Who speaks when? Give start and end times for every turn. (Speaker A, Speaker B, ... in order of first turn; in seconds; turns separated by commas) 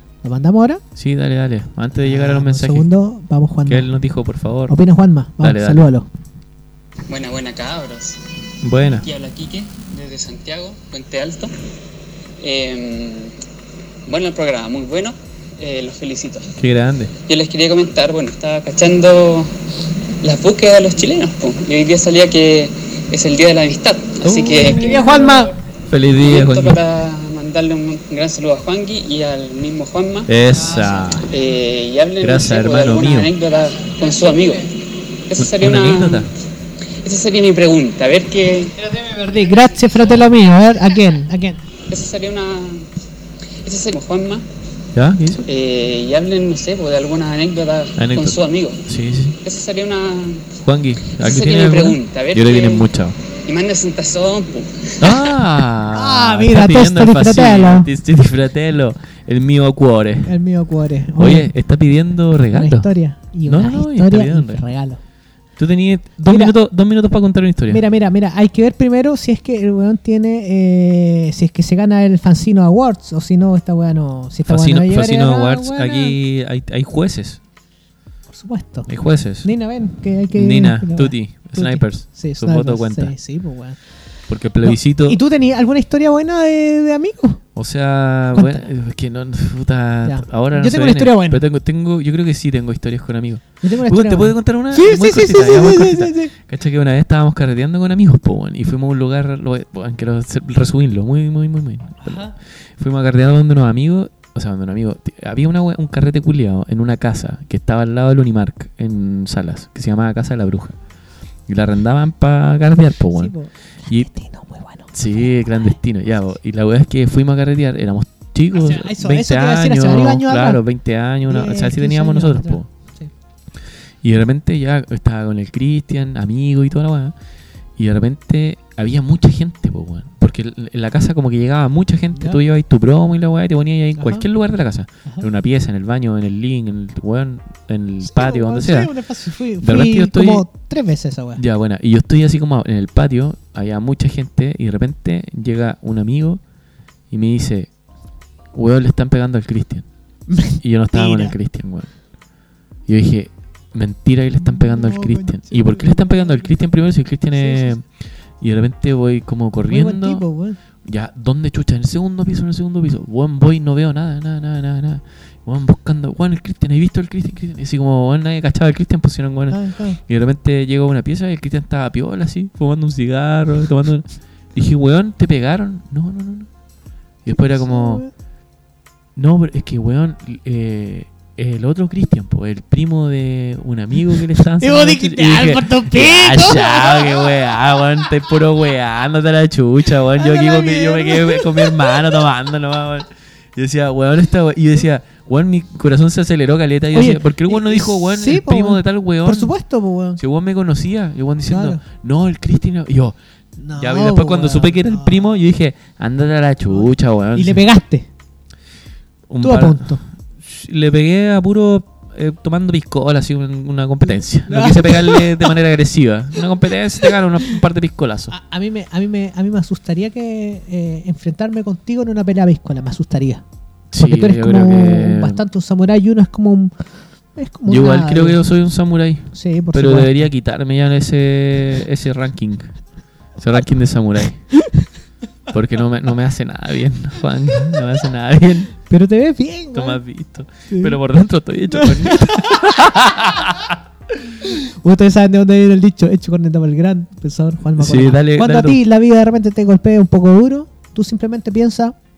Speaker A: 0.2-0.8, Speaker B: 1.0-2.9, Speaker A: 1.9-3.9, Speaker B: 3.7-4.8, Speaker A: 4.7-6.1, Speaker B: 5.4-5.9, Speaker C: 7.1-8.2, Speaker B: 8.6-9.1, Speaker C: 9.0-11.5, Speaker C: 12.4-13.3, Speaker C: 14.1-16.5, Speaker B: 16.6-17.1, Speaker C: 17.3-19.5, Speaker C: 20.2-25.5, Speaker B: 24.2-25.1, Speaker A: 24.6-25.5, Speaker B: 25.9-26.8, Speaker C: 26.2-30.3, Speaker B: 30.3-31.3, Speaker C: 31.3-36.3, Speaker B: 32.2-33.3, Speaker B: 35.4-36.3, Speaker C: 37.0-38.7, Speaker A: 38.8-41.6, Speaker C: 41.9-42.9, Speaker C: 43.6-44.4, Speaker B: 45.0-45.5, Speaker C: 45.5-48.8, Speaker B: 48.0-49.4, Speaker C: 49.4-50.5, Speaker B: 50.6-53.2, Speaker C: 51.2-52.9, Speaker C: 53.5-55.3, Speaker B: 55.0-60.3, Speaker A: 55.9-57.9, Speaker A: 60.2-61.5, Speaker B: 61.2-62.9, Speaker A: 62.5-65.0, Speaker B: 63.5-64.6, Speaker B: 65.6-67.8, Speaker A: 66.2-66.6, Speaker A: 67.7-76.2, Speaker B: 74.5-77.4, Speaker A: 78.3-78.9, Speaker B: 78.9-79.5, Speaker A: 79.4-83.8, Speaker B: 80.3-83.1, Speaker B: 84.3-85.2, Speaker A: 84.6-87.4, Speaker B: 87.6-102.2, Speaker A: 88.3-88.6, Speaker A: 90.0-91.4, Speaker A: 93.6-96.3, Speaker A: 102.0-102.3, Speaker B: 102.8-110.8, Speaker B: 111.5-113.3, Speaker A: 113.1-115.7, Speaker B: 114.9-122.7, Speaker A: 118.5-120.6, Speaker A: 121.3-123.1, Speaker B: 124.0-127.1, Speaker B: 127.8-138.9, Speaker A: 132.1-132.4, Speaker A: 134.0-134.3, Speaker A: 138.0-141.4, Speaker B: 139.6-140.5, Speaker B: 141.4-146.4, Speaker B: 147.1-147.7, Speaker B: 148.5-149.9, Speaker A: 150.3-151.4, Speaker B: 150.6-151.9, Speaker B: 152.9-157.8, Speaker A: 154.3-156.6, Speaker A: 157.3-157.8, Speaker B: 158.4-160.2, Speaker A: 159.7-160.6, Speaker B: 160.8-176.5, Speaker A: 169.5-170.0, Speaker B: 177.2-178.0, Speaker A: 177.3-178.1, Speaker B: 179.2-199.5, Speaker A: 184.6-188.3, Speaker A: 190.1-192.2, Speaker A: 196.9-200.2, Speaker B: 200.2-203.2, Speaker A: 201.5-201.8, Speaker A: 203.6-205.4, Speaker B: 203.8-207.6, Speaker A: 206.7-208.1, Speaker B: 209.3-218.3, Speaker A: 209.4-210.0, Speaker A: 214.5-215.5, Speaker A: 218.3-223.4, Speaker B: 223.9-225.4, Speaker A: 224.0-226.7, Speaker A: 227.4-228.4, Speaker B: 227.7-232.7, Speaker A: 229.3-230.3, Speaker B: 233.4-234.4, Speaker A: 234.6-234.9, Speaker B: 235.5-238.7, Speaker A: 238.9-240.0, Speaker B: 239.7-243.8, Speaker A: 240.7-241.0, Speaker A: 241.7-243.7, Speaker A: 244.4-251.9, Speaker B: 247.8-248.8